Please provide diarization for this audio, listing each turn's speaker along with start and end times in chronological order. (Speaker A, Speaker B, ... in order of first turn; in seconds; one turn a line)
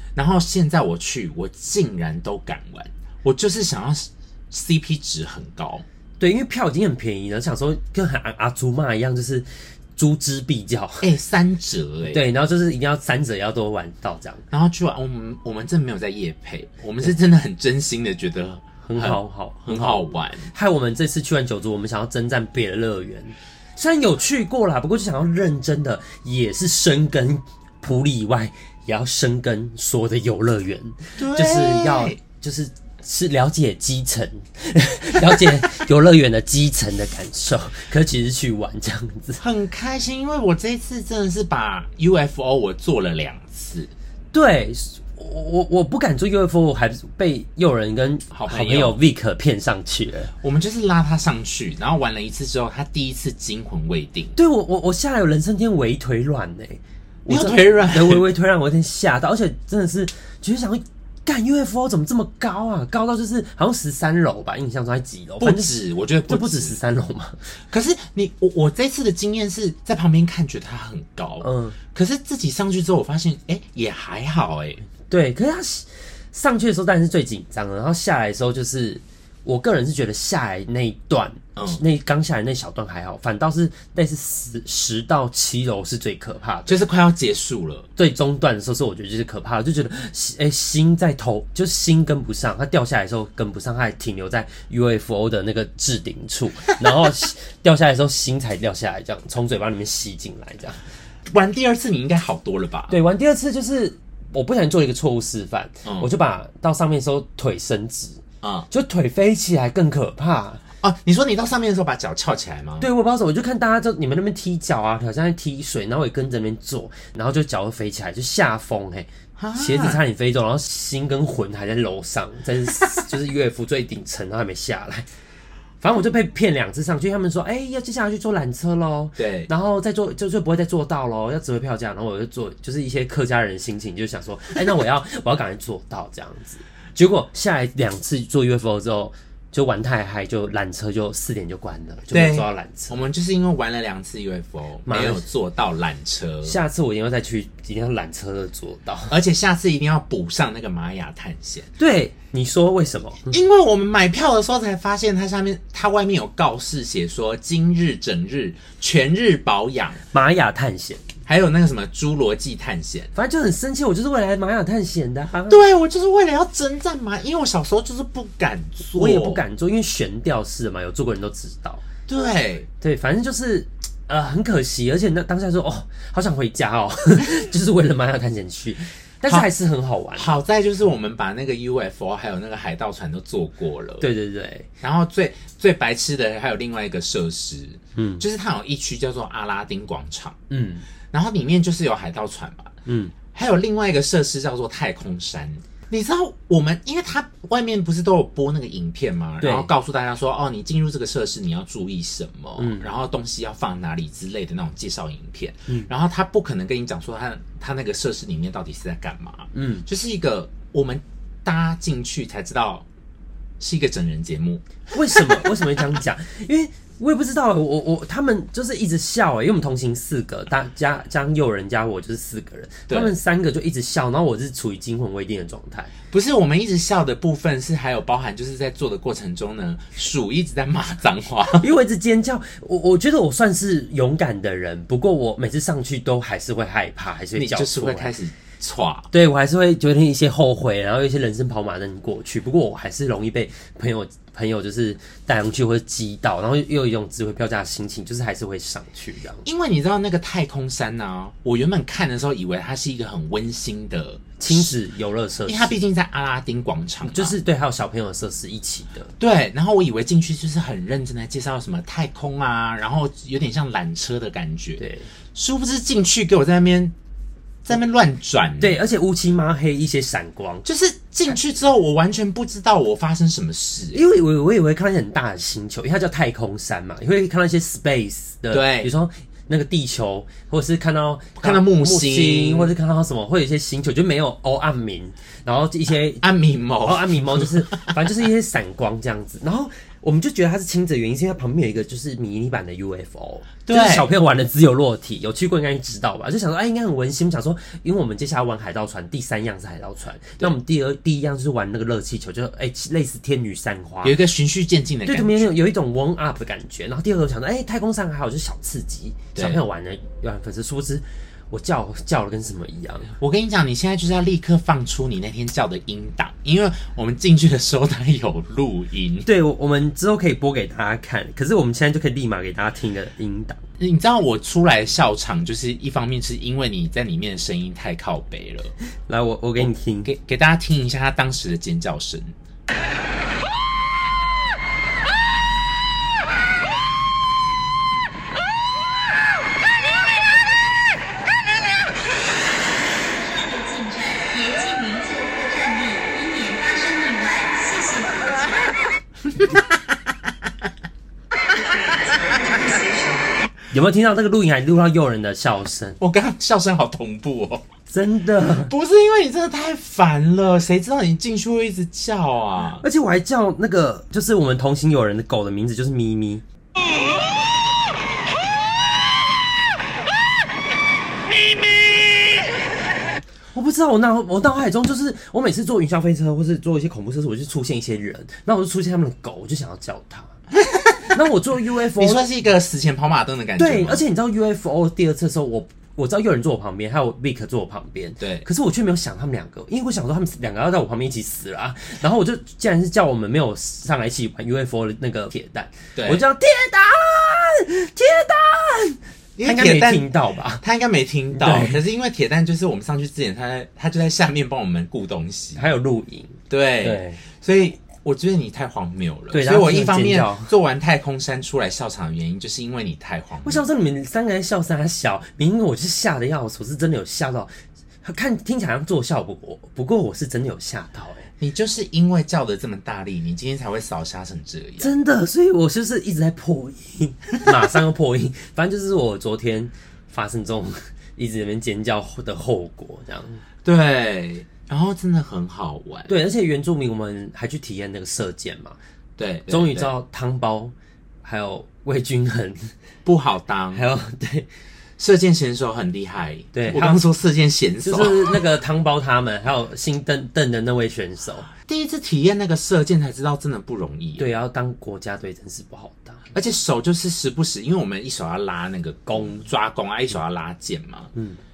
Speaker A: 0.1-5.8
Speaker B: 6.2-11.1
Speaker A: 11.0-12.2
Speaker B: 12.1-14.4
Speaker A: 14.5-20.5
Speaker B: 18.8-39.4
Speaker A: 31.2-32.2
Speaker A: 39.4-43.9
Speaker B: 44.3-50.3
Speaker A: 48.3-49.0
Speaker A: 50.4-54.3
Speaker B: 54.3-65.7
Speaker A: 57.3-58.2
Speaker A: 65.4-66.8
Speaker B: 66.3-67.4
Speaker A: 67.7-74.8
Speaker B: 71.4-71.8
Speaker B: 75.1-86.8
Speaker A: 81.5-81.8
Speaker A: 86.7-87.9
Speaker B: 88.0-100.8
Speaker A: 101.2-103.0
Speaker B: 102.9-110.6
Speaker A: 105.8-106.1
Speaker A: 108.4-108.7
Speaker A: 110.8-112.9
Speaker B: 112.8-125.1
Speaker A: 119.4-120.0
Speaker B: 125.8-143.0
Speaker A: 129.2-129.5
Speaker A: 142.1-146.6
Speaker B: 144.9-145.2
Speaker B: 146.4-149.2
Speaker A: 149.1-151.7
Speaker B: 151.8-153.4
Speaker A: 153.3-160.0
Speaker B: 160.1-161.0
Speaker A: 161.2-163.1
Speaker B: 163.1-165.6
Speaker A: 165.5-169.4
Speaker B: 168.9-171.8
Speaker A: 172.1-172.7
Speaker B: 172.8-180.3
Speaker A: 180.1-184.1
Speaker B: 184.0-184.7
Speaker A: 184.8-190.4
Speaker B: 187.9-188.2
Speaker B: 190.5-190.8
Speaker A: 191.1-192.8
Speaker B: 192.8-193.1
Speaker A: 193.3-212.8
Speaker B: 199.4-199.7
Speaker B: 202.6-202.9
Speaker B: 209.5-209.8
Speaker A: 213.6-215.6
Speaker B: 214.9-225.9
Speaker A: 222.9-223.1
Speaker A: 226.1-231.7
Speaker B: 231.6-238.1
Speaker A: 237.3-239.1
Speaker B: 239.1-249.4
Speaker A: 249.4-254.7
Speaker B: 254.4-255.7
Speaker A: 255.5-257.4
Speaker B: 257.0-259.1
Speaker A: 259.2-264.8
Speaker B: 264.8-265.1
Speaker A: 265.3-266.9
Speaker A: 267.6-268.8
Speaker B: 268.6-270.6
Speaker A: 270.6-274.0
Speaker B: 273.9-286.2
Speaker A: 278.5-278.9
Speaker A: 281.4-282.7
Speaker A: 286.2-287.9
Speaker B: 286.8-304.2
Speaker A: 293.7-294.1
Speaker A: 304.0-305.5
Speaker B: 305.1-313.1
Speaker A: 309.4-309.6
Speaker A: 313.2-319.3
Speaker B: 319.2-323.6
Speaker A: 323.8-328.7
Speaker B: 329.1-330.1
Speaker A: 329.6-332.3
Speaker C: 343.1-348.8
Speaker A: 349.3-349.6
Speaker C: 351.8-353.3
Speaker B: 353.7-356.0
Speaker A: 356.0-357.6
Speaker B: 357.9-358.7
Speaker A: 358.4-362.8
Speaker B: 362.8-366.4
Speaker B: 373.5-380.3
Speaker A: 380.6-381.2
Speaker B: 381.1-382.2
Speaker A: 381.9-384.0
Speaker B: 383.6-400.6
Speaker A: 388.2-388.4
Speaker A: 395.9-396.2
Speaker A: 399.4-405.6
Speaker B: 401.3-401.8
Speaker B: 405.6-407.2
Speaker A: 406.5-413.6
Speaker B: 409.3-410.5
Speaker B: 413.4-417.5
Speaker B: 418.0-421.3
Speaker A: 421.4-424.9
Speaker B: 424.8-433.4
Speaker A: 433.6-436.1
Speaker B: 436.1-438.8
Speaker A: 439.2-439.9
Speaker B: 439.5-442.7
Speaker A: 443.0-443.8
Speaker B: 443.7-444.5
Speaker A: 445.0-448.4
Speaker B: 446.5-447.0
Speaker B: 447.8-451.5
Speaker A: 451.6-454.3
Speaker B: 454.2-456.3
Speaker A: 456.3-461.1
Speaker B: 459.1-459.4